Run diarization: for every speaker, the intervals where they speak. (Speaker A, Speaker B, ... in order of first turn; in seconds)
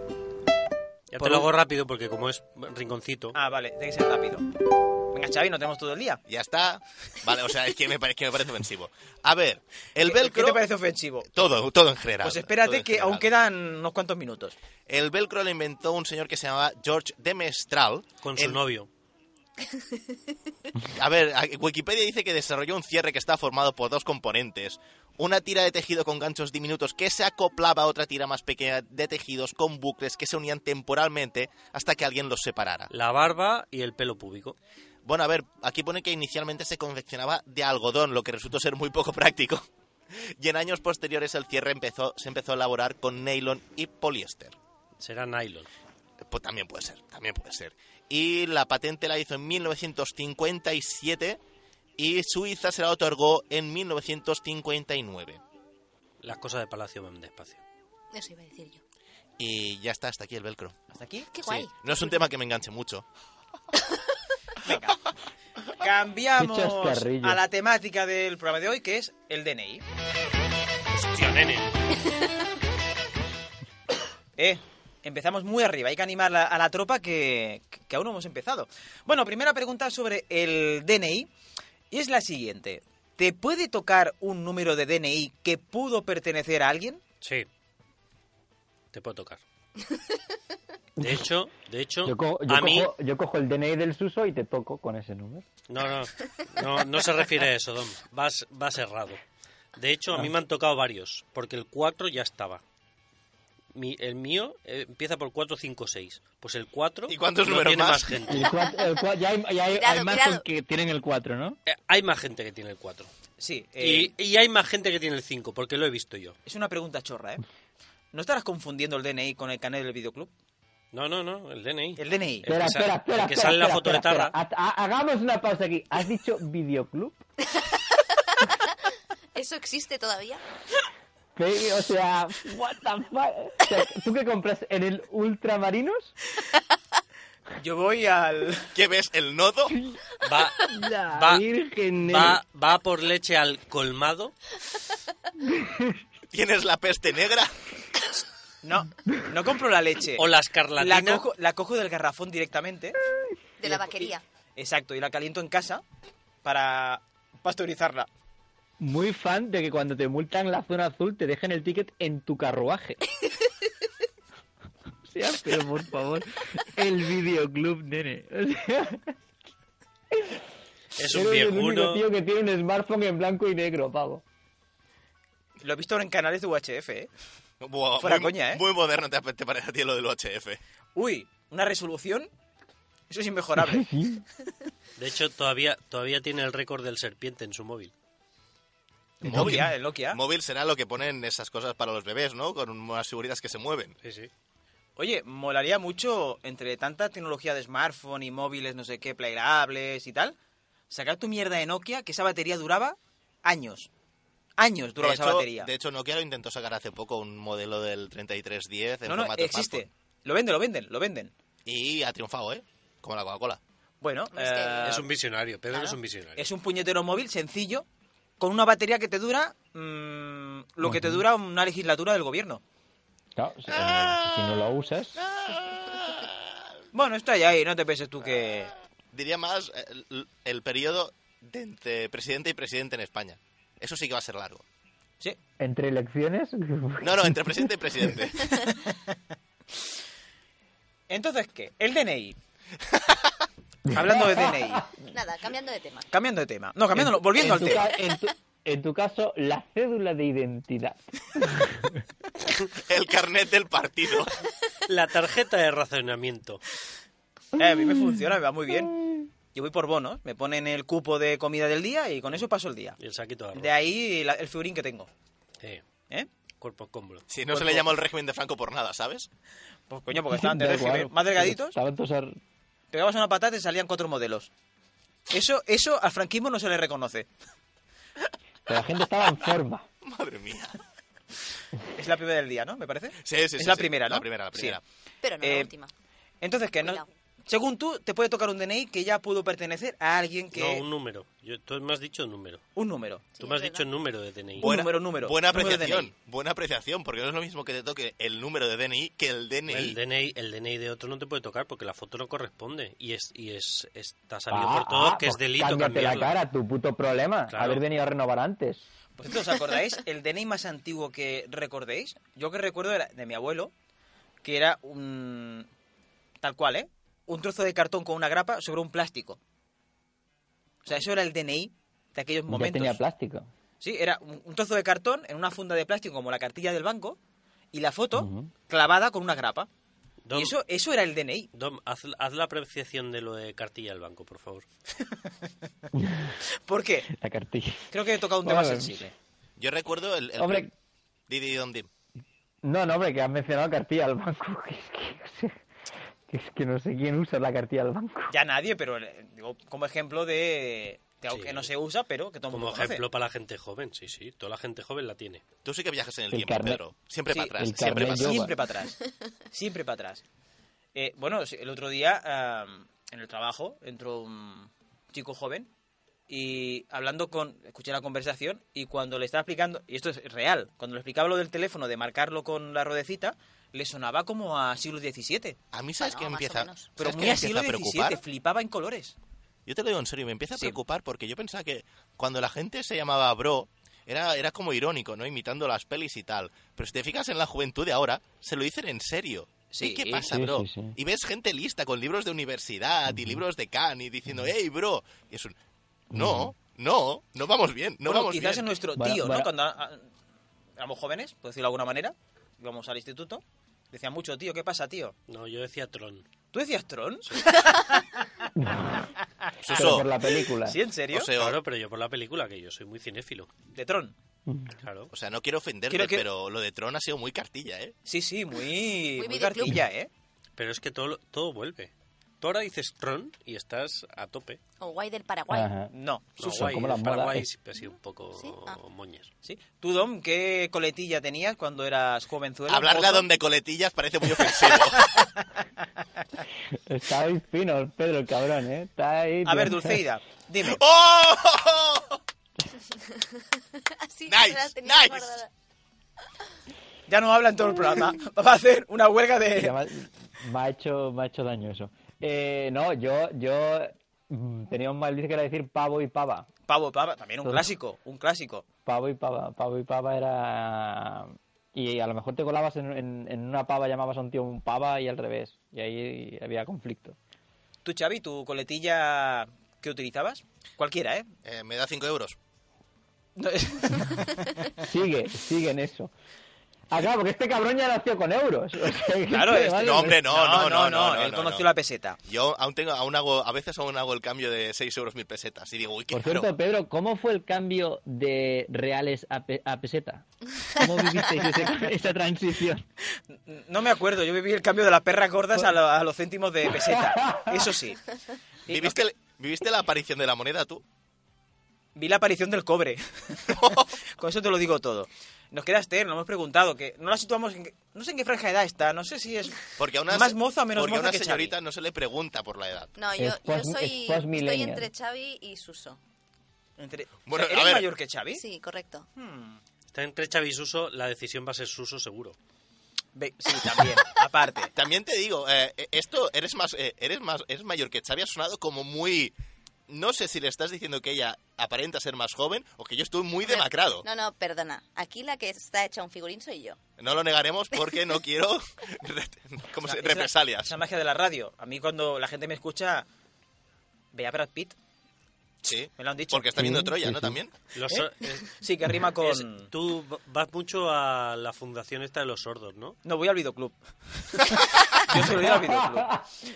Speaker A: 1.1-3.4, 18.2-18.9, 32.9-34.6, 45.0-45.7, 56.2-57.6, 70.9-71.7, 87.2-87.5, 88.9-89.4, 91.0-92.9, 95.7-99.2, 99.8-102.6, 103.7-108.5, 111.7-113.1, 113.8-116.4, 120.9-124.3, 140.2-141.4, 142.1-144.3, 150.2-151.2, 171.0-172.0, 185.0-187.9, 194.0-194.3, 214.8-216.5, 254.9-256.6, 263.0-263.7, 266.6-267.2, 290.5-292.6, 293.4-294.7, 299.7-306.4, 307.5-307.8, 330.3-330.6, 331.5-334.6, 351.3-351.7, 352.5-355.4, 405.3-406.2, 407.3-407.5, 411.4-413.5, 414.8-415.1, 420.6-424.6, 426.4-429.3, 519.9-522.4, 547.7-548.6, 549.2-553.0
Speaker B: 1.2-1.5, 3.3-4.5, 5.1-6.2, 10.0-11.3, 12.2-14.6, 60.9-61.3, 64.6-65.0, 65.8-69.8, 74.4-81.3, 81.9-87.0, 113.4-114.1, 116.5-117.4, 118.1-120.3, 122.0-122.5, 137.6-138.7, 148.6-150.3, 150.8-153.0, 153.6-155.8, 156.4-158.1, 175.6-177.1, 178.0-178.6, 180.9-182.3, 183.1-183.9, 189.2-190.2, 195.0-200.4, 200.9-203.9, 204.6-205.7, 209.1-211.3, 214.0-215.1, 216.4-217.9, 218.4-222.6, 226.9-228.7, 238.7-239.2, 241.1-242.4, 243.9-244.9, 246.1-247.9, 257.6-259.0, 259.5-263.0, 263.5-265.1, 267.5-267.9, 269.9-271.8, 272.9-274.5, 275.3-277.3, 281.9-284.8, 285.4-285.7, 286.4-290.8, 292.8-293.3, 294.6-296.1, 309.2-313.7, 314.4-315.7, 316.4-319.4, 320.9-323.0, 323.8-327.2, 327.7-329.7, 330.3-331.5, 335.0-335.3, 336.7-337.1, 337.9-339.1, 348.3-353.0, 357.3-359.0, 359.5-360.2, 360.9-365.7, 366.3-375.6, 377.0-379.1, 389.7-390.3, 398.1-400.1, 400.8-405.1, 406.5-408.1, 410.6-411.3, 413.7-414.1, 415.9-416.2, 418.1-420.1, 425.9-426.4, 429.4-433.3, 439.4-440.8, 447.1-449.8, 456.7-458.6, 467.9-471.3, 473.4-474.7, 479.3-482.2, 493.3-498.0, 498.7-499.0, 501.9-511.6, 516.8-518.4, 519.2-519.6, 523.2-524.7, 539.8-543.1, 544.1-544.8, 546.0-546.7, 547.9-549.7, 553.0-556.1
Speaker C: 6.3-10.6, 11.3-13.3, 14.9-18.6, 20.8-32.9, 35.0-44.5, 46.3-51.4, 52.0-55.4, 59.4-60.8, 61.4-63.0, 107.1-108.2, 138.8-139.8, 146.3-147.5, 177.6-180.6, 189.2-193.9, 205.0-209.8, 211.7-213.6, 223.8-224.4, 225.2-226.4, 229.1-234.6, 237.0-238.5, 242.9-243.3, 252.7-254.3, 267.3-269.3, 280.0-280.8, 283.2-284.8, 294.6-300.0, 339.6-340.7, 341.3-341.9, 355.6-358.5, 375.7-378.2, 379.7-395.6, 396.1-398.7, 409.6-410.1, 411.1-411.6, 415.1-417.9, 432.7-435.3, 440.6-442.2, 444.3-445.4, 471.4-472.4, 479.8-481.7, 482.3-486.5, 498.7-500.8, 503.5-504.0, 509.8-512.9, 517.3-517.9, 524.8-529.3, 529.9-534.0, 537.0-540.7, 545.6-547.5
Speaker D: 58.1-58.8, 61.3-62.2, 109.7-110.5, 127.6-128.8, 129.3-130.4, 153.6-154.2, 214.3-215.0, 245.1-246.1, 285.2-285.9, 286.8-287.1, 293.4-293.9, 376.0-376.9, 419.2-419.8, 424.8-425.8, 427.9-428.8, 444.1-445.5, 513.0-516.0, 518.3-519.1, 533.4-536.8
Speaker E: 66.4-67.4, 92.0-95.5, 108.3-111.6, 122.5-127.2, 131.4-136.1, 139.7-140.0, 140.7-142.4, 145.4-146.0, 158.8-163.0, 165.1-169.1, 170.1-170.4, 171.1-174.2, 183.6-184.2, 189.2-189.6, 220.8-221.2, 223.3-225.2, 235.6-237.7, 243.9-244.9, 246.9-252.0, 270.1-272.4, 278.7-279.9, 304.5-308.8, 322.5-323.5, 328.2-328.5, 335.9-336.4, 337.1-337.9, 338.4-339.1, 340.4-340.7, 342.6-345.6, 346.3-348.3, 356.3-356.8, 357.6-358.5, 390.2-391.0, 393.1-393.4, 396.1-396.5, 399.0-399.5, 408.6-409.0, 409.7-410.8, 414.5-414.8, 425.5-427.5, 436.7-440.0, 449.6-456.5, 458.9-467.2, 474.8-476.1, 476.9-480.2, 486.1-492.9, 496.8-497.6, 513.2-514.9, 546.6-547.4, 555.1-556.3